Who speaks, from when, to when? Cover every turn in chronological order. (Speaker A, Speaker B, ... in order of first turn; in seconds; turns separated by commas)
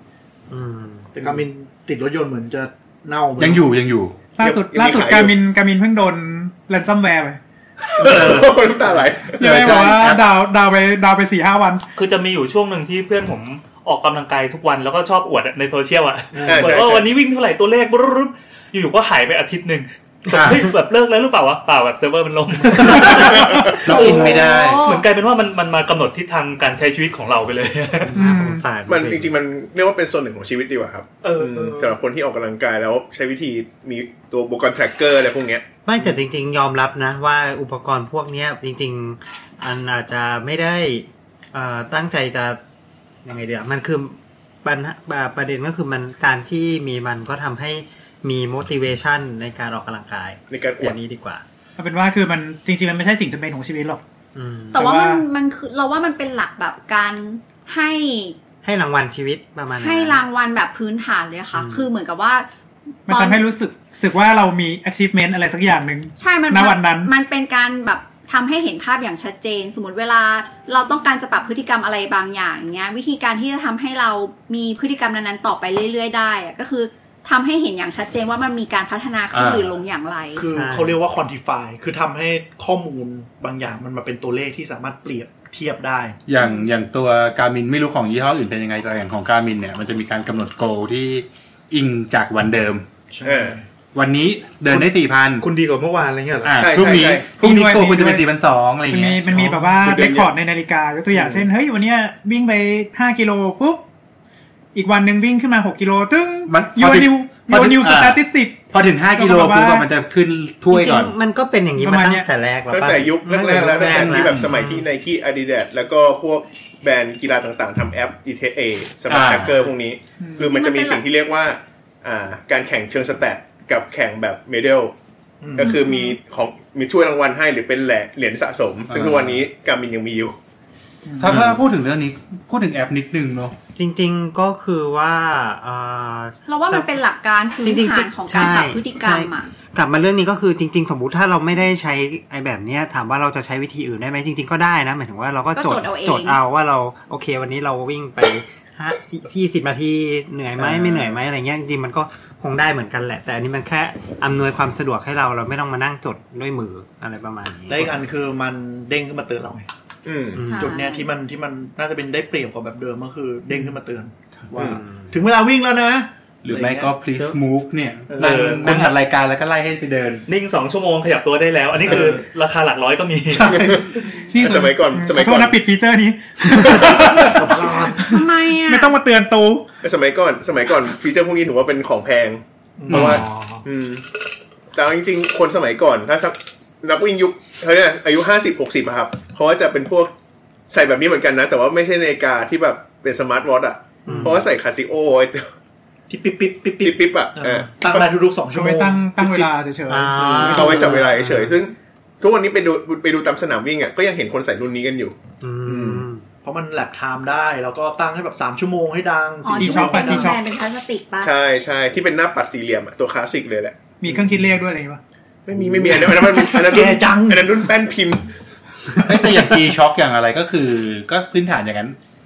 Speaker A: 0.5-1.1, Speaker B: 1.1-3.6, Speaker C: 3.4-4.2, Speaker D: 4.4-7.4, Speaker E: 4.4-5.3, Speaker C: 8.0-8.6, Speaker E: 8.0-9.8, Speaker C: 9.4-10.3, Speaker D: 9.4-11.8, Speaker F: 11.9-28.2, Speaker B: 16.3-16.8, Speaker E: 16.4-17.1, Speaker C: 20.3-20.7, Speaker B: 22.7-23.3, Speaker E: 23.1-24.1, Speaker C: 23.8-24.8, Speaker G: 23.9-25.1, Speaker A: 28.1-29.3, Speaker D: 28.1-28.6, Speaker E: 28.9-35.6, Speaker F: 31.2-32.0, Speaker A: 35.9-42.6, Speaker A: 43.2-51.4, Speaker E: 50.5-51.0, Speaker D: 51.8-54.0, Speaker A: 54.3-54.9, Speaker G: 54.7-58.4, Speaker D: 54.7-55.2, Speaker A: 58.6-60.2, Speaker G: 59.7-62.5, Speaker A: 61.5-61.9, Speaker D: 63.1-67.1, Speaker G: 63.1-63.4, Speaker G: 66.2-80.5, Speaker C: 79.3-79.7, Speaker B: 80.3-86.2, Speaker A: 80.5-81.0, Speaker C: 86.3-92.8, Speaker B: 93.1-93.6, Speaker E: 93.2-93.6, Speaker C: 93.9-95.5, Speaker F: 95.4-96.6, Speaker C: 96.4-99.7, Speaker E: 96.6-97.4, Speaker D: 96.8-98.3, Speaker D: 98.8-103.8, Speaker E: 99.8-100.3, Speaker D: 104.7-109.9, Speaker C: 106.5-111.1, Speaker A: 110.7-114.8, Speaker D: 111.8-112.3, Speaker E: 112.7-124.9, Speaker C: 113.9-114.5, Speaker C: 119.1-119.6, Speaker D: 120.2-120.5, Speaker G: 120.5-121.0, Speaker B: 125.4-125.8, Speaker E: 125.5-130.3, Speaker G: 125.6-126.2, Speaker C: 128.9-129.4, Speaker D: 131.1-131.5, Speaker C: 131.2-133.5, Speaker A: 133.7-136.9, Speaker G: 136.4-139.5, Speaker A: 137.6-157.9, Speaker G: 145.5-146.4, Speaker B: 150.6-151.1, Speaker B: 157.7-159.7, Speaker E: 160.0-160.4, Speaker A: 160.3-160.7, Speaker G: 160.4-161.1, Speaker B: 160.6-166.9, Speaker A: 164.6-165.1, Speaker C: 166.4-170.2, Speaker B: 168.1-168.7, Speaker F: 168.2-168.9, Speaker F: 170.3-173.6, Speaker B: 171.8-172.2, Speaker B: 173.3-173.9, Speaker E: 173.4-175.6, Speaker D: 174.3-179.6, Speaker E: 176.5-177.3, Speaker B: 177.2-178.2, Speaker G: 178.1-178.9, Speaker E: 179.8-184.1, Speaker B: 182.8-183.2, Speaker F: 182.9-183.6, Speaker E: 184.7-190.1, Speaker E: 190.7-195.5, Speaker A: 194.1-194.4, Speaker B: 194.1-194.4, Speaker B: 196.1-199.5, Speaker E: 196.8-198.1, Speaker D: 198.5-200.8, Speaker A: 199.9-201.5, Speaker B: 200.3-201.0, Speaker E: 200.5-205.1, Speaker A: 205.4-206.2, Speaker E: 205.7-206.0, Speaker B: 206.4-210.3, Speaker G: 209.4-211.3, Speaker D: 209.6-210.4, Speaker E: 211.2-214.2, Speaker D: 214.0-215.0, Speaker E: 215.4-218.3, Speaker B: 215.6-217.7, Speaker C: 219.0-221.9